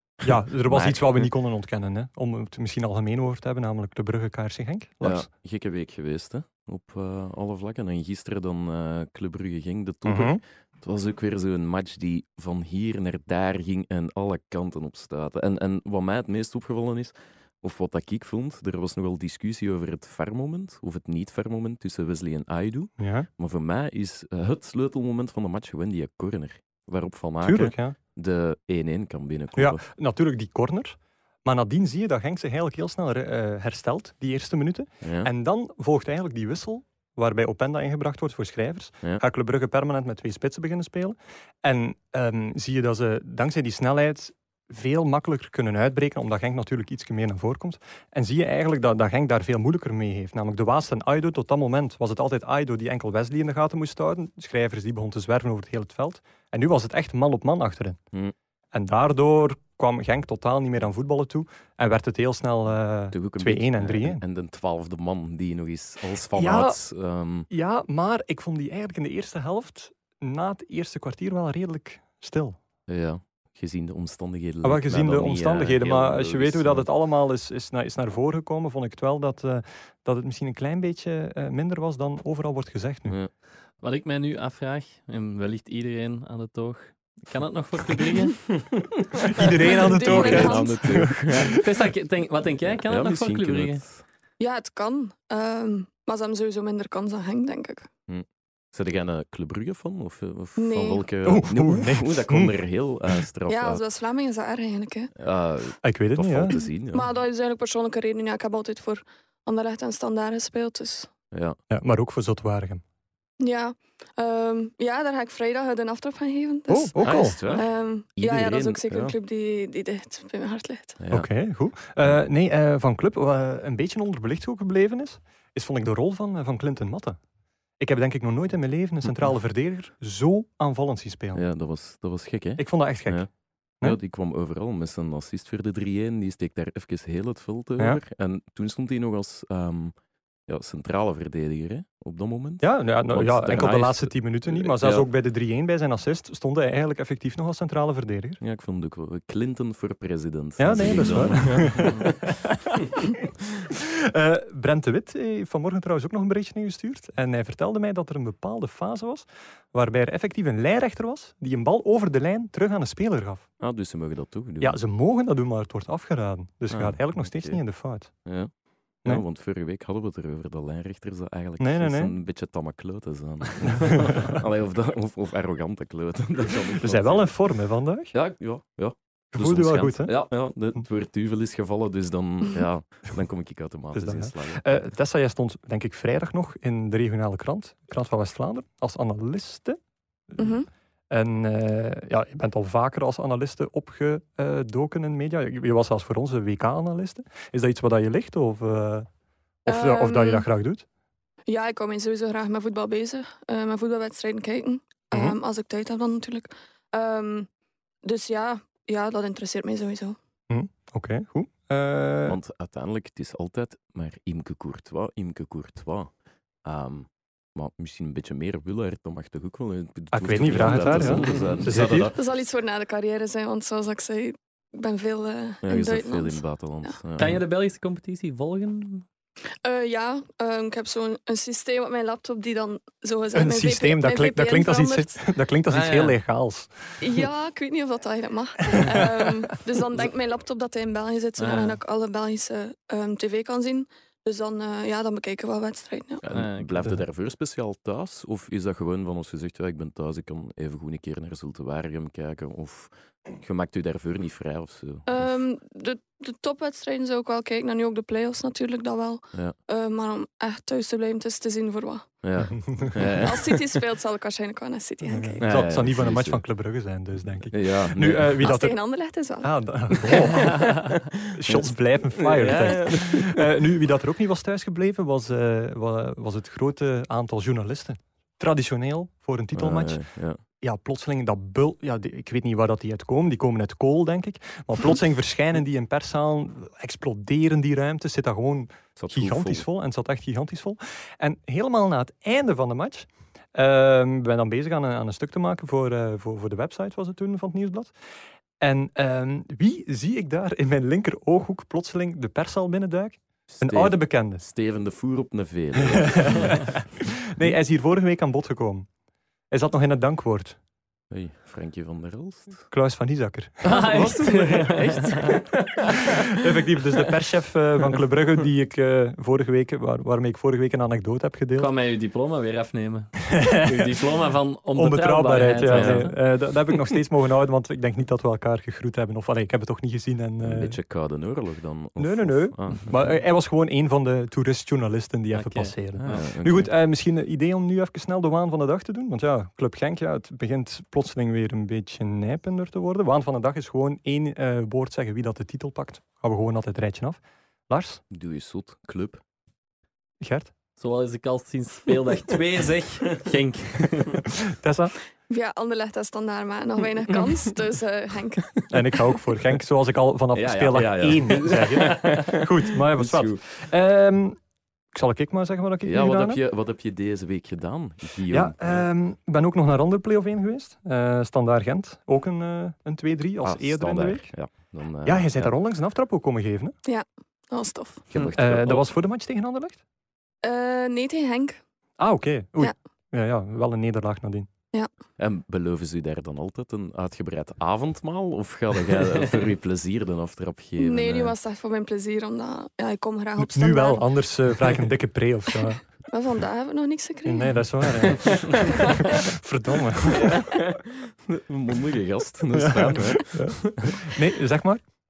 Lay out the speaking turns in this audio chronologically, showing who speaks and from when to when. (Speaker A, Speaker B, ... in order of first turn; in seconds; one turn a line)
Speaker A: 0.2-5.3
Speaker B: 0.7-1.3
Speaker B: 5.0-29.8
Speaker A: 10.1-10.4
Speaker A: 23.0-23.3
Speaker A: 27.4-28.0
Speaker A: 29.6-58.0
Speaker B: 35.0-35.3
Speaker A: 58.7-64.2
Speaker B: 63.1-67.5
Speaker A: 66.3-66.8
Speaker A: 67.5-72.6
Speaker B: 72.9-76.9
Speaker A: 74.6-83.2
Speaker C: 83.8-88.5
Speaker A: 89.3-91.6
Speaker B: 89.7-91.7
Speaker D: 89.8-91.0
Speaker C: 91.5-93.8
Speaker B: 92.8-94.0
Speaker D: 94.4-97.9
Speaker B: 98.1-103.8
Speaker D: 100.6-101.0
Speaker A: 101.2-102.6
Speaker D: 103.5-105.1
Speaker B: 105.2-107.1
Speaker A: 105.8-106.6
Speaker D: 106.9-111.1
Speaker B: 111.3-111.6
Speaker A: 111.7-112.8
Speaker D: 113.4-121.0
Speaker A: 116.7-117.4
Speaker B: 117.0-119.2
Speaker B: 121.0-121.3
Speaker A: 121.1-127.2
Speaker A: 127.8-131.5
Speaker B: 131.3-133.3
Speaker A: 132.6-133.3
Speaker B: 133.8-139.9
Speaker B: 140.5-145.1
Speaker A: 142.6-148.4
Speaker B: 148.4-152.2
Speaker A: 150.6-152.5
Speaker C: 151.5-152.0
Speaker A: 153.7-163.5
Speaker B: 163.6-164.8
Speaker A: 164.6-168.2
Speaker B: 166.7-167.6
Speaker B: 168.2-168.5
Speaker B: 169.0-177.3
Speaker A: 171.6-172.1
Speaker A: 176.8-178.1
Speaker B: 178.1-184.8
Speaker A: 179.3-180.3
Speaker A: 183.9-189.8
Speaker A: 190.3-190.6
Speaker D: 190.4-190.7
Speaker A: 191.1-199.1
Speaker A: 199.7-200.8
Speaker D: 199.7-200.5
Speaker D: 201.5-207.5
Speaker D: 208.0-210.2
Speaker A: 210.5-212.4
Speaker B: 212.3-216.1
Speaker B: 216.6-222.2
Speaker A: 220.1-222.1
Speaker C: 220.9-221.7
Speaker D: 222.1-226.9
Speaker B: 225.6-227.4
Speaker C: 227.2-229.1
Speaker D: 229.6-235.2
Speaker A: 233.3-237.2
Speaker C: 235.7-236.2
Speaker D: 237.0-246.2
Speaker C: 241.4-241.8
Speaker B: 246.2-255.3
Speaker C: 246.3-246.9
Speaker D: 255.1-262.1
Speaker B: 262.2-263.8
Speaker D: 263.2-265.4
Speaker A: 265.1-268.8
Speaker B: 265.4-266.4
Speaker B: 267.5-268.5
Speaker D: 268.4-269.5
Speaker A: 269.4-297.9
Speaker B: 271.4-273.4
Speaker B: 279.5-280.4
Speaker B: 289.0-289.7
Speaker A: 298.6-304.4
Speaker B: 303.5-306.9
Speaker A: 305.9-306.8
Speaker A: 307.3-308.9
Speaker A: 309.5-310.6
Speaker B: 311.1-312.7
Speaker A: 312.7-313.7
Speaker B: 313.6-316.1
Speaker C: 313.6-315.6
Speaker A: 316.3-321.7
Speaker C: 321.6-326.2
Speaker A: 323.3-323.9
Speaker A: 324.8-330.8
Speaker B: 325.7-326.1
Speaker B: 330.4-333.1
Speaker A: 332.0-348.0
Speaker C: 335.3-336.3
Speaker B: 336.0-336.7
Speaker B: 348.1-349.2
Speaker A: 350.2-350.5
Speaker C: 350.8-354.2
Speaker A: 354.6-354.9
Speaker D: 355.3-358.7
Speaker A: 358.7-364.4
Speaker B: 360.3-363.4
Speaker A: 364.9-366.4
Speaker B: 365.8-368.9
Speaker A: 368.3-374.3
Speaker B: 373.4-375.5
Speaker A: 375.0-376.8
Speaker D: 376.9-378.0
Speaker B: 378.1-378.9
Speaker A: 378.4-379.8
Speaker D: 380.4-381.6
Speaker A: 382.0-384.5
Speaker B: 385.2-391.4
Speaker D: 390.8-394.1
Speaker A: 393.4-395.8
Speaker D: 396.1-397.6
Speaker A: 397.3-400.4
Speaker B: 400.1-404.1
Speaker A: 402.5-404.8